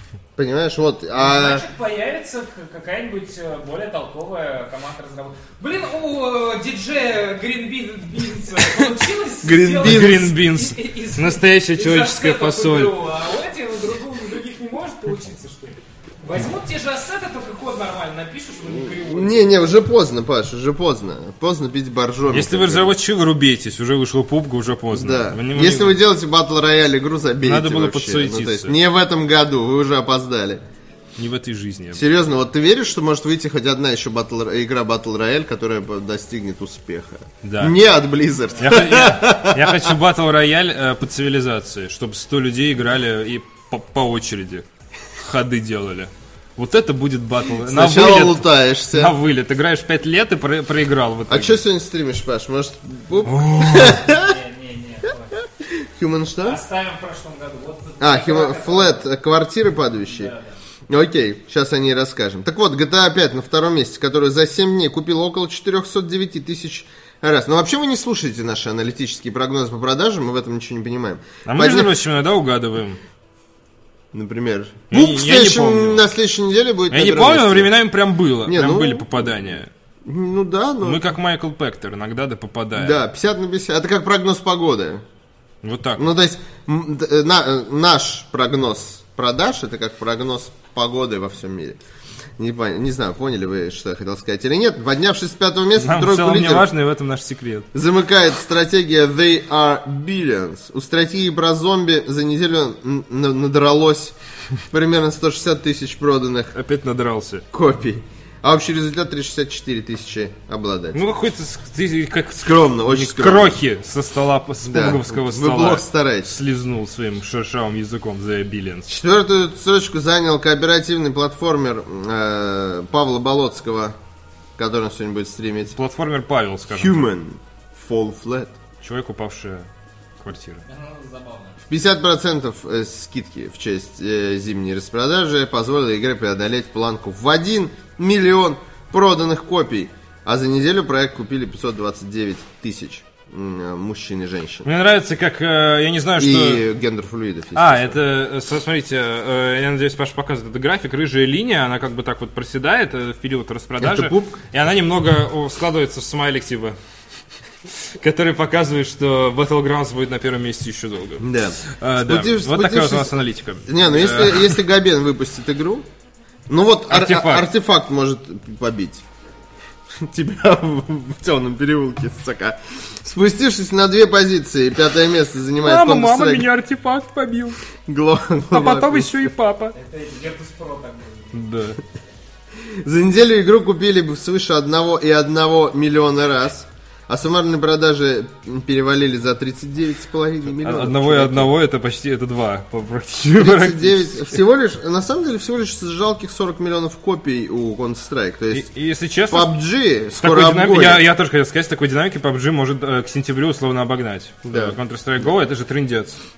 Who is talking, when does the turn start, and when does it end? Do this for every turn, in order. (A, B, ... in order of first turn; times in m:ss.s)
0:00.4-0:01.6 A
0:01.2-0:19.5 B
0:09.4-0:10.3 A
0:09.8-0:12.9 C
0:18.7-0:22.9 A
0:22.3-0:26.0 C
0:24.9-0:30.6 A
0:27.4-0:28.8 C
0:31.2-0:32.0 C
0:31.9-0:39.9 A
0:37.4-0:37.7 C
0:38.6-0:51.6 C
0:47.6-0:49.1 A
0:51.3-0:54.4 A
0:53.2-0:54.0 C
0:53.8-0:55.4 B
0:55.6-0:56.6 A
0:56.4-0:59.0 B
0:58.0-1:00.3 A
1:00.1-1:00.6 B
1:00.9-1:11.9 A
1:11.4-1:13.0 C
1:14.1-1:17.7 A
1:14.9-1:16.1 C
1:16.9-1:19.7 C
1:18.4-1:19.4 A
1:20.0-1:21.0 A
1:20.8-1:23.0 C
1:22.7-1:25.0 A
1:25.6-1:26.1 C
1:26.0-1:31.8 A
1:32.4-1:36.7 A
1:35.8-1:37.7 C
1:37.7-1:44.1 A
1:44.7-1:46.5 A
1:46.5-1:47.4 C
1:47.5-1:51.0 A
1:50.9-1:58.9 C
1:52.4-1:53.6 A
1:54.6-1:56.3 A
1:58.9-2:04.0 A
2:04.6-2:05.7 A
2:05.7-2:07.0 C
2:06.7-2:08.6 A
2:08.8-2:09.7 C
2:10.2-2:10.6 C
2:10.7-2:11.6 B
2:11.7-2:24.7 A
2:24.6-2:26.6 C
2:26.2-2:28.0 A
2:27.5-2:36.8 C
2:33.8-2:34.4 A
2:38.0-2:44.6 C
2:41.2-2:45.8 A
2:46.5-2:49.0 A
2:46.9-2:47.5 C
2:50.0-2:56.5 A
2:55.6-2:57.6 C
2:57.8-2:59.3 A
2:58.5-2:59.7 C
2:59.7-3:01.4 B
3:01.3-3:01.8 C
3:02.6-3:11.5 A
3:10.6-3:14.4 C
3:13.4-3:18.7 A
3:18.5-3:19.5 C
3:19.3-3:21.0 A
3:20.1-3:26.2 C
3:24.5-3:24.8 A